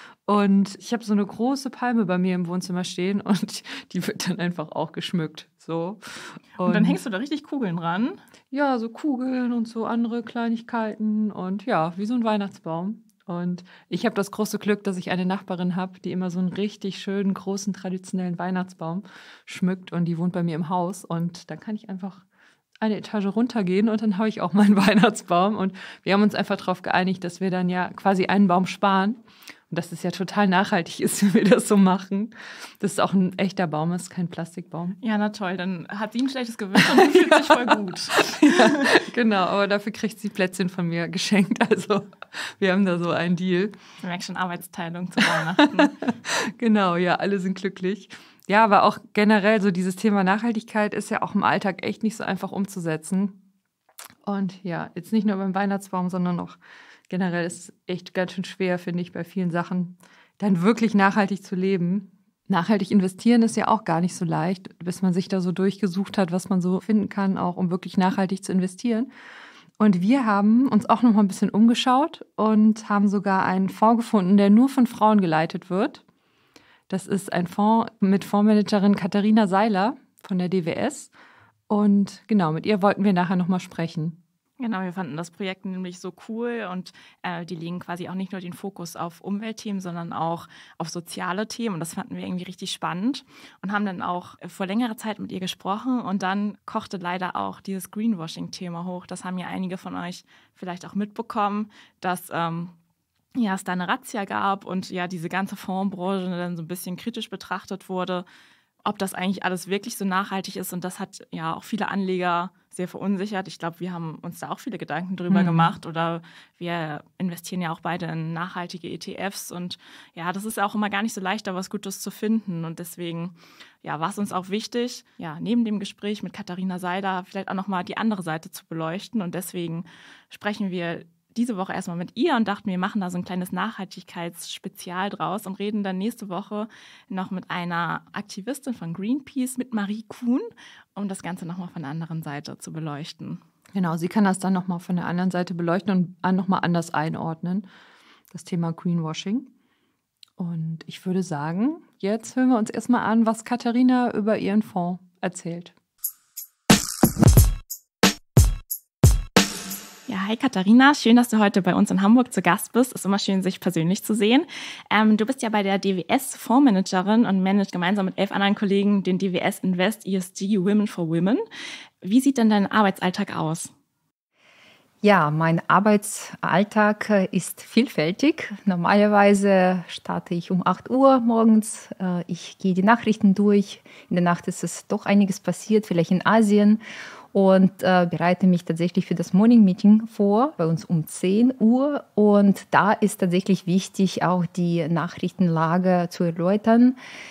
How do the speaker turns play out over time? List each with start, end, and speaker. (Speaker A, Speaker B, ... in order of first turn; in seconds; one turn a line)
Speaker A: 0.2-7.0
Speaker B: 6.6-8.2
Speaker A: 8.5-22.2
Speaker A: 22.8-35.0
Speaker B: 35.0-38.9
Speaker A: 36.8-43.8
Speaker B: 44.0-46.0
Speaker A: 45.3-53.4
Speaker A: 54.2-56.6
Speaker A: 57.1-69.1
Speaker A: 69.8-76.0
Speaker A: 76.9-81.1
Speaker A: 81.7-84.2
Speaker B: 84.6-102.7
Speaker B: 103.3-108.2
Speaker B: 108.8-143.4
Speaker A: 115.3-115.7
Speaker A: 143.7-147.7
Speaker A: 148.3-149.5
Speaker A: 150.4-155.7
Speaker B: 160.1-171.4
Speaker B: 172.0-173.7
Speaker C: 175.0-186.8
Speaker C: 187.3-196.9